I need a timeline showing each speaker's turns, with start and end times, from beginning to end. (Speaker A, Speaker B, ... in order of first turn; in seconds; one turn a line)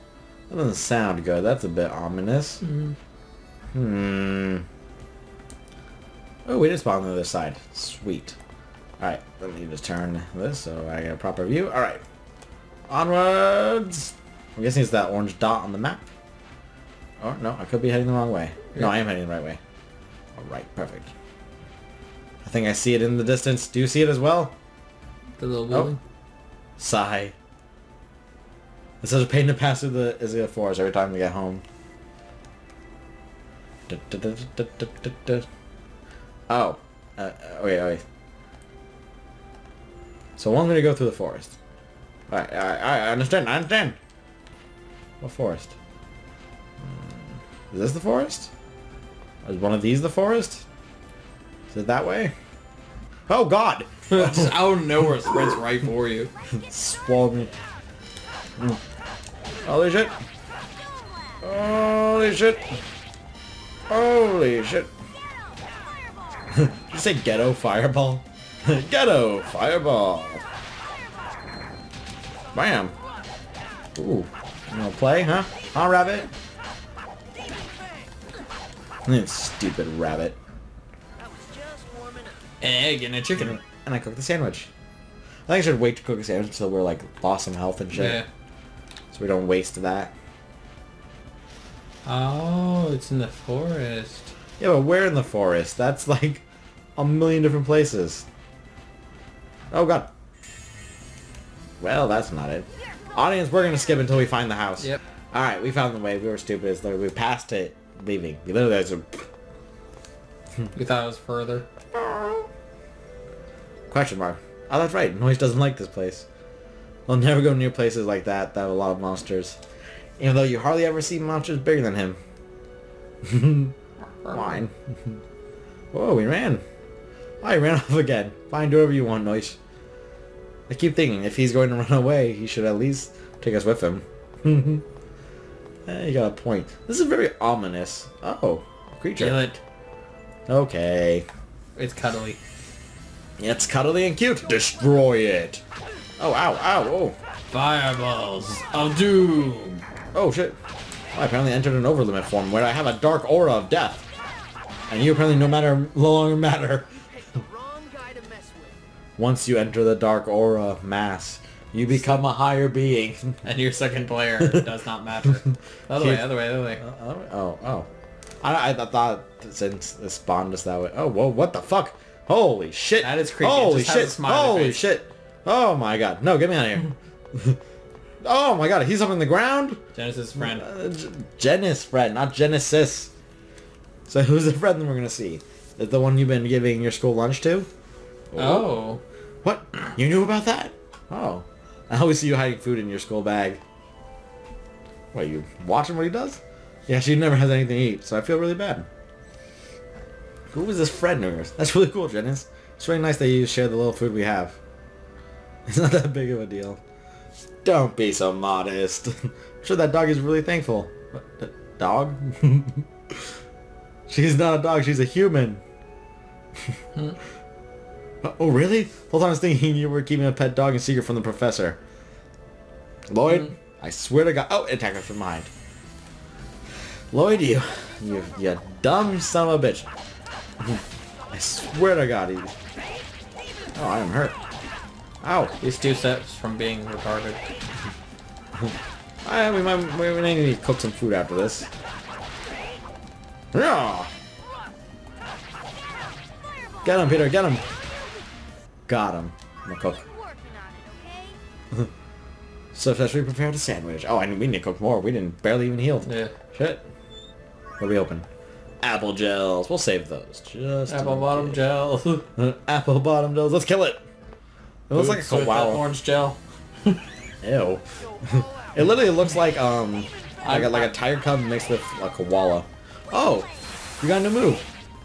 Speaker A: 0.5-2.6
Speaker B: 2.6-2.9
Speaker A: 3.7-4.7
Speaker A: 6.5-8.3
Speaker A: 9.0-12.0
Speaker A: 12.9-16.1
Speaker A: 17.2-19.6
Speaker A: 20.4-21.1
Speaker A: 22.4-24.5
Speaker B: 25.4-26.0
Speaker A: 26.8-27.3
Speaker A: 29.0-31.6
Speaker A: 33.9-35.5
Speaker A: 36.5-38.0
Speaker A: 40.4-41.5
Speaker A: 42.3-44.0
Speaker A: 45.2-45.7
Speaker A: 46.8-47.1
Speaker A: 47.7-48.5
Speaker A: 49.4-50.6
Speaker A: 51.7-52.3
Speaker A: 53.3-55.5
Speaker B: 54.1-56.3
Speaker C: 56.4-57.1
Speaker A: 56.5-57.5
Speaker A: 59.6-60.1
Speaker C: 60.7-61.4
Speaker A: 61.4-62.8
Speaker A: 63.9-64.9
Speaker C: 65.1-66.5
Speaker A: 66.5-70.4
Speaker D: 72.5-73.0
Speaker A: 72.5-72.9
Speaker A: 74.0-76.3
Speaker D: 77.3-78.1
Speaker A: 79.1-80.4
Speaker D: 81.2-82.5
Speaker B: 82.6-83.6
Speaker A: 83.4-84.7
Speaker A: 85.5-88.2
Speaker B: 87.9-88.2
Speaker A: 89.1-90.1
Speaker B: 92.0-94.3
Speaker A: 94.6-96.4
Speaker A: 97.0-98.2
Speaker A: 99.7-100.1
Speaker A: 101.8-109.2
Speaker C: 102.7-104.1
Speaker B: 110.7-111.7
Speaker A: 111.9-112.5
Speaker A: 113.9-116.2
Speaker A: 117.1-119.6
Speaker A: 120.2-122.2
Speaker A: 123.2-123.7
Speaker B: 124.2-124.6
Speaker A: 124.3-125.2
Speaker A: 125.9-126.6
Speaker A: 127.4-129.6
Speaker A: 130.7-134.8
Speaker A: 135.8-139.5
Speaker B: 139.2-139.6
Speaker A: 140.5-141.3
Speaker B: 141.8-142.4
Speaker A: 143.4-145.6
Speaker A: 146.2-147.2
Speaker B: 147.5-149.8
Speaker A: 150.1-150.6
Speaker A: 151.1-154.1
Speaker A: 154.9-156.9
Speaker D: 156.9-158.8
Speaker A: 159.2-163.4
Speaker B: 163.4-166.8
Speaker A: 165.9-167.9
Speaker A: 168.4-177.6
Speaker B: 173.0-174.9
Speaker A: 178.2-179.8
Speaker B: 179.9-180.7
Speaker A: 180.3-183.1
Speaker A: 184.1-187.7
Speaker A: 188.3-188.8
Speaker B: 188.3-189.0
Speaker A: 189.4-193.6
Speaker A: 195.1-198.9
Speaker A: 200.5-204.6
Speaker A: 205.7-206.8
Speaker A: 207.6-213.2
Speaker A: 214.1-215.6
Speaker A: 218.2-221.8
Speaker A: 223.1-225.5
Speaker A: 227.1-229.9
Speaker A: 230.6-232.5
Speaker A: 233.7-234.4
Speaker A: 235.2-235.5
Speaker B: 235.6-237.4
Speaker A: 239.2-241.7
Speaker A: 243.5-244.1
Speaker C: 246.4-248.2
Speaker A: 246.8-247.6
Speaker A: 248.9-250.0
Speaker C: 249.8-251.4
Speaker A: 252.7-256.8
Speaker B: 256.0-256.3
Speaker A: 257.8-258.2
Speaker A: 258.8-261.6
Speaker B: 260.9-262.2
Speaker A: 262.3-264.0
Speaker A: 264.9-265.8
Speaker B: 264.9-267.0
Speaker A: 267.4-274.6
Speaker D: 267.9-269.0
Speaker B: 270.4-270.9
Speaker C: 273.1-273.5